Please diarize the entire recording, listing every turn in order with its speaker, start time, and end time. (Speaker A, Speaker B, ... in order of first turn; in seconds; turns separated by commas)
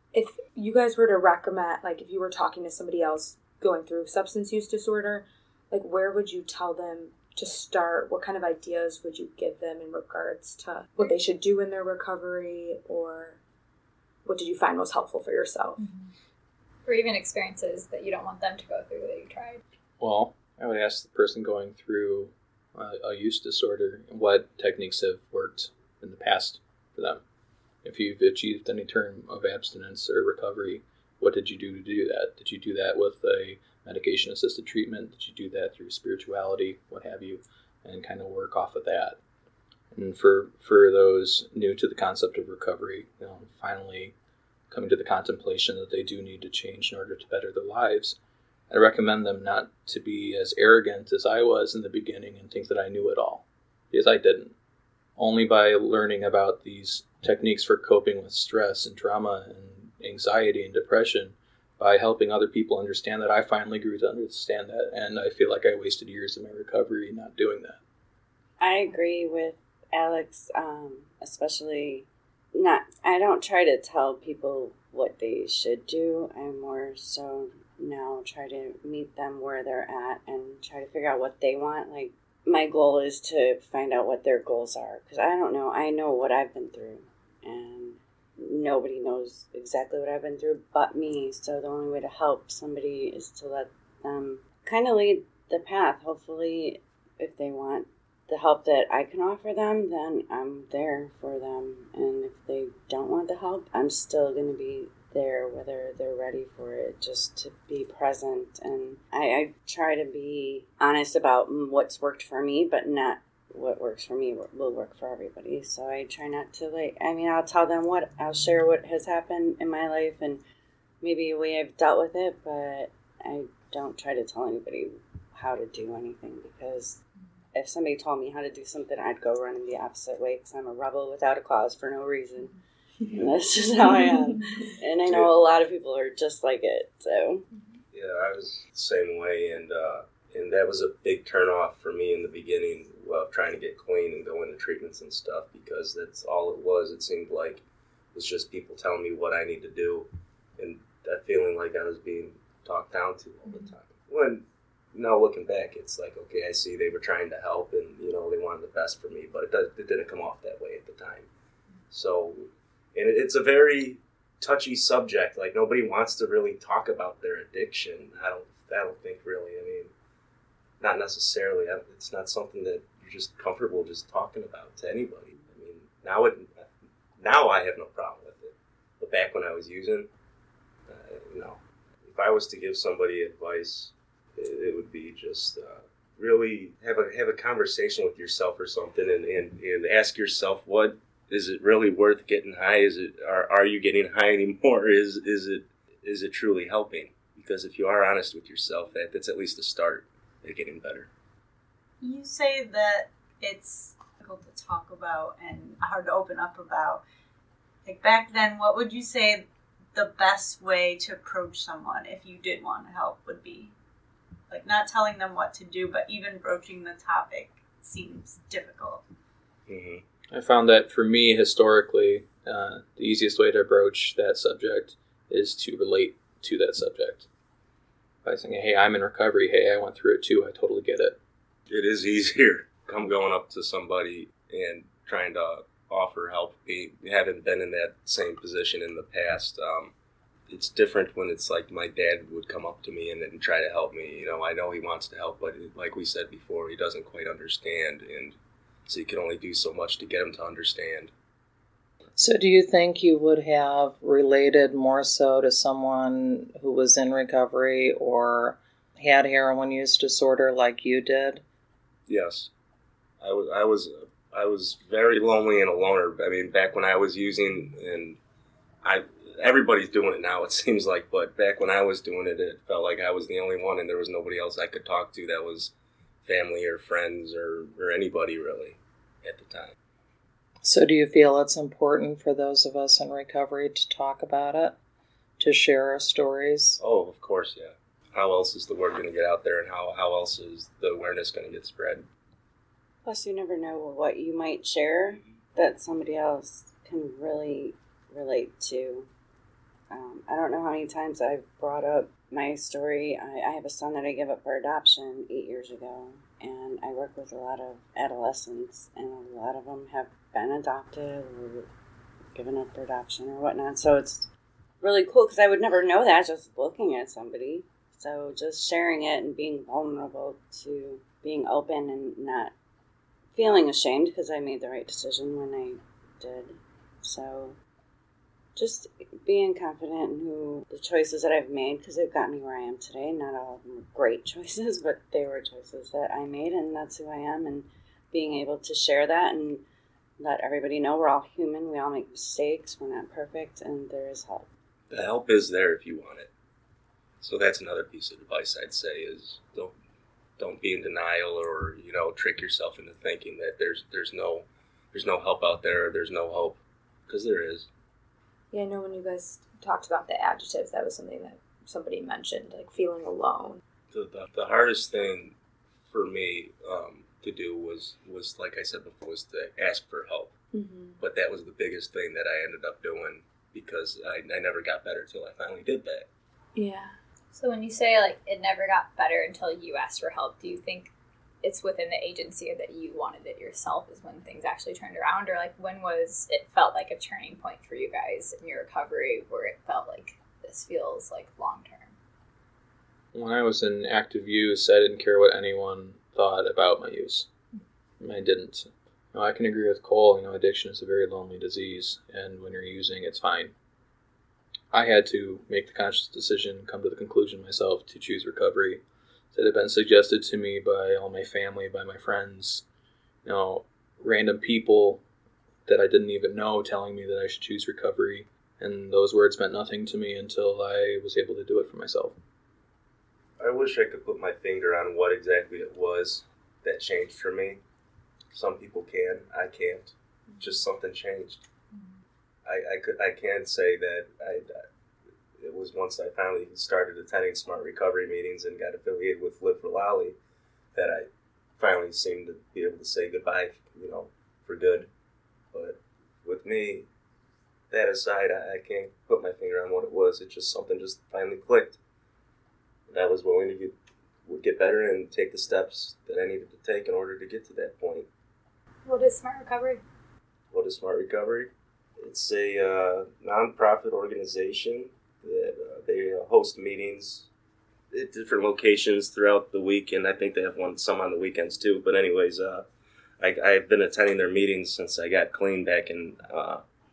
Speaker A: 0.1-13.4, Speaker A: 14.2-15.8, Speaker B: 15.8-16.1, Speaker B: 16.9-19.6, Speaker C: 20.0-27.2, Speaker C: 27.8-39.2, Speaker C: 39.9-44.1, Speaker C: 44.7-48.2, Speaker C: 48.7-54.5, Speaker C: 55.2-67.8, Speaker D: 68.6-120.4, Speaker D: 121.0-127.0, Speaker D: 127.5-132.5, Speaker D: 133.1-137.5, Speaker E: 137.9-161.3, Speaker E: 161.9-169.9, Speaker E: 170.8-176.5, Speaker E: 177.2-180.1, Speaker E: 180.9-201.1, Speaker F: 202.0-207.0, Speaker F: 207.8-213.7, Speaker F: 214.5-219.0, Speaker E: 219.7-220.0, Speaker C: 220.3-227.3, Speaker C: 228.2-231.2, Speaker E: 231.7-239.9, Speaker E: 240.5-248.4, Speaker E: 248.9-251.1, Speaker G: 252.2-261.4, Speaker E: 262.1-262.5, Speaker E: 263.2-268.2, Speaker E: 268.8-275.7, Speaker E: 276.2-279.8, Speaker G: 280.6-284.8, Speaker G: 285.4-286.8, Speaker E: 286.8-292.1, Speaker D: 293.1-299.1, Speaker D: 299.9-311.7, Speaker D: 312.3-314.3, Speaker D: 314.8-322.5, Speaker D: 323.4-327.6, Speaker D: 328.6-339.6, Speaker D: 340.2-344.5, Speaker E: 344.9-346.3, Speaker E: 347.2-349.7, Speaker E: 350.4-357.7, Speaker A: 358.5-363.6, Speaker E: 363.9-365.4, Speaker E: 365.9-370.3, Speaker A: 370.5-371.0, Speaker E: 371.0-376.1, Speaker A: 376.6-376.9, Speaker B: 377.3-391.9, Speaker C: 393.1-397.3, Speaker C: 398.0-403.6, Speaker C: 404.7-408.8, Speaker C: 409.3-412.6, Speaker C: 413.2-415.0, Speaker C: 415.7-422.2, Speaker E: 423.4-427.6, Speaker E: 428.3-431.4, Speaker E: 432.4-434.6, Speaker E: 435.4-440.2, Speaker E: 440.8-444.9, Speaker E: 445.5-446.9, Speaker E: 447.7-451.8, Speaker E: 452.9-453.8, Speaker E: 454.3-458.1, Speaker B: 458.9-459.8, Speaker E: 460.5-467.3, Speaker E: 467.9-472.7, Speaker E: 473.2-476.6